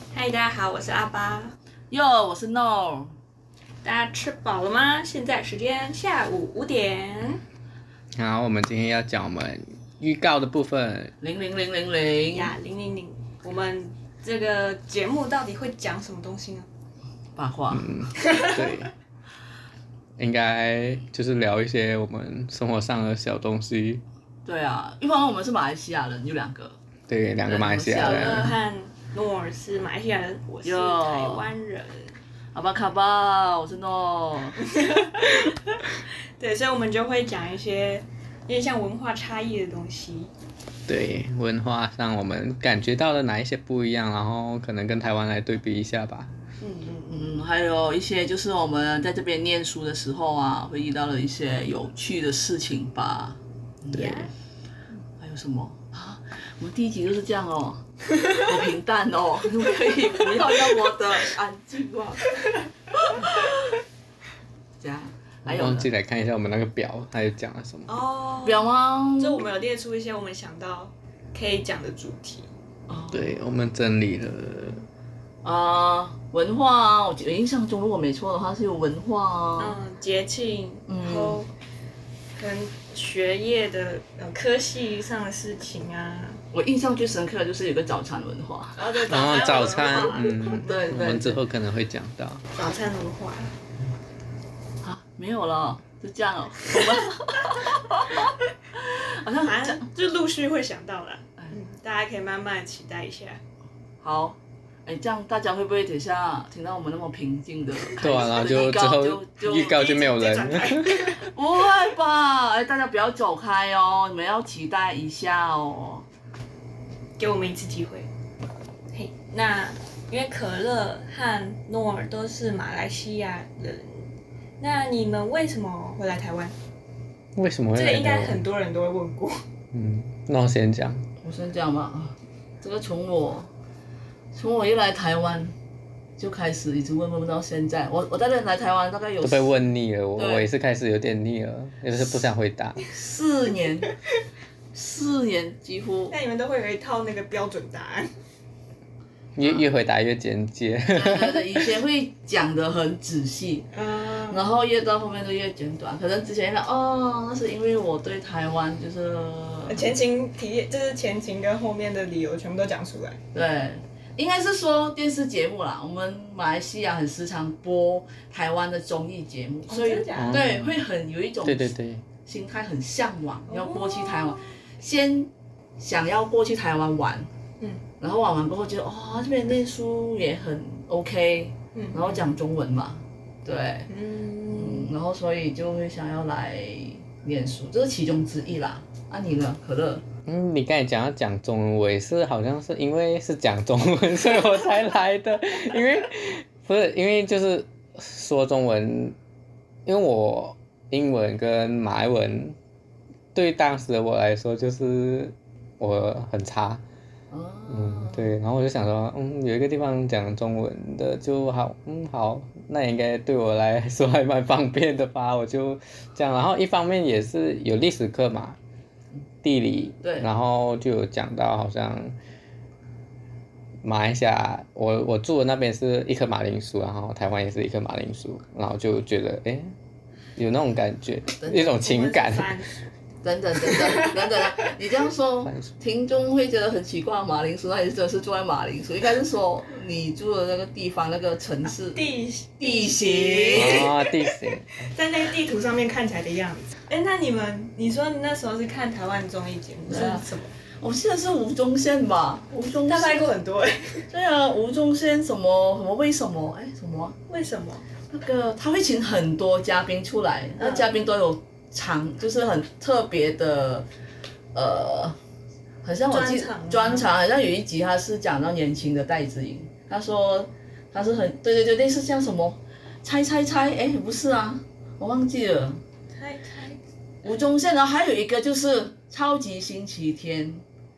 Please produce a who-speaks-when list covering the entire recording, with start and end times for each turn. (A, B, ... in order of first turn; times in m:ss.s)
0:00.1-0:01.6 A
0:01.9-0:03.1 B
0:03.8-0:07.4 A
0:08.2-0:11.1 C
0:11.2-0:12.5 B
0:12.3-0:16.7 A
0:17.4-0:18.1 B
0:17.7-0:18.9 C
0:18.2-0:18.6 A
0:20.2-0:24.0 C
0:24.4-0:26.8 B
0:27.1-0:28.5 C
0:27.4-0:28.5 B
0:28.0-0:32.2 A
0:30.6-0:31.5 B
0:32.5-0:34.7 B
0:34.7-0:35.5 A
0:36.4-0:40.3 A
0:40.9-0:46.3 C
0:46.6-0:47.4 A
0:47.1-0:54.2 B
0:53.9-0:54.3 A
0:53.9-0:54.3 C
0:55.2-1:02.4 B
1:03.0-1:03.6 B
1:04.8-1:05.9 B
1:05.5-1:07.9 C
1:07.9-1:12.5 A
1:08.4-1:09.5 B
1:12.9-1:13.4 B
1:13.1-1:14.8 C
1:15.4-1:19.8 B
1:19.6-1:21.5 A
1:20.9-1:21.4 B
1:22.4-1:26.4 A
1:26.5-1:28.8 B
1:28.8-1:31.0 A
1:29.1-1:32.4 C
1:30.6-1:31.4 B
1:32.5-1:33.5 A
1:34.8-1:38.2 B
1:39.0-1:39.8 B
1:39.3-1:43.4 A
1:44.0-1:49.8 B
1:48.0-1:51.1 C
1:49.4-1:51.3 A
1:51.2-1:56.1 B
1:57.2-1:58.1 A
1:58.9-2:04.1 A
2:04.6-2:06.6 A
2:07.4-2:08.4 C
2:07.7-2:09.4 A
2:09.7-2:11.0 C
2:11.2-2:13.5 B
2:14.3-2:15.5 B
2:16.2-2:19.6 B
2:19.2-2:22.8 C
2:20.2-2:20.5 B
2:22.9-2:24.0 B
2:24.7-2:26.2 B
2:26.1-2:28.1 A
2:29.4-2:31.4 C
2:30.9-2:33.7 B
2:33.7-2:34.5 A
2:34.3-2:39.9 B
2:39.7-2:43.2 A
2:43.3-2:51.7 B
2:49.7-2:50.4 A
2:50.1-2:50.8 C
2:51.4-2:52.0 C
2:52.2-2:57.3 B
2:53.5-2:54.6 A
2:58.0-3:03.9 B
3:01.8-3:02.3 A
3:03.9-3:04.9 A
3:04.5-3:10.0 B
3:10.3-3:19.2 C
3:19.9-3:22.6 C
3:23.3-3:26.8 C
3:27.3-3:28.3 B
3:27.7-3:38.6 C
3:39.4-3:42.2 C
3:40.0-3:40.3 B
3:43.8-3:49.7 C
3:50.4-3:52.6 C
3:51.4-3:51.8 B
3:51.7-3:52.9 A
3:53.2-4:03.9 B
3:55.4-3:55.8 C
4:01.6-4:04.2 A
4:03.5-4:04.7 C
4:04.8-4:10.5 A
4:09.9-4:10.3 B
4:10.8-4:13.3 B
4:12.8-4:14.0 A
4:14.1-4:17.2 B
4:17.3-4:17.8 A
4:18.1-4:23.9 B
4:20.6-4:20.9 A
4:24.5-4:25.2 B
4:25.8-4:35.8 B
4:26.1-4:27.1 A
4:36.1-4:36.8 A
4:37.2-4:40.6 B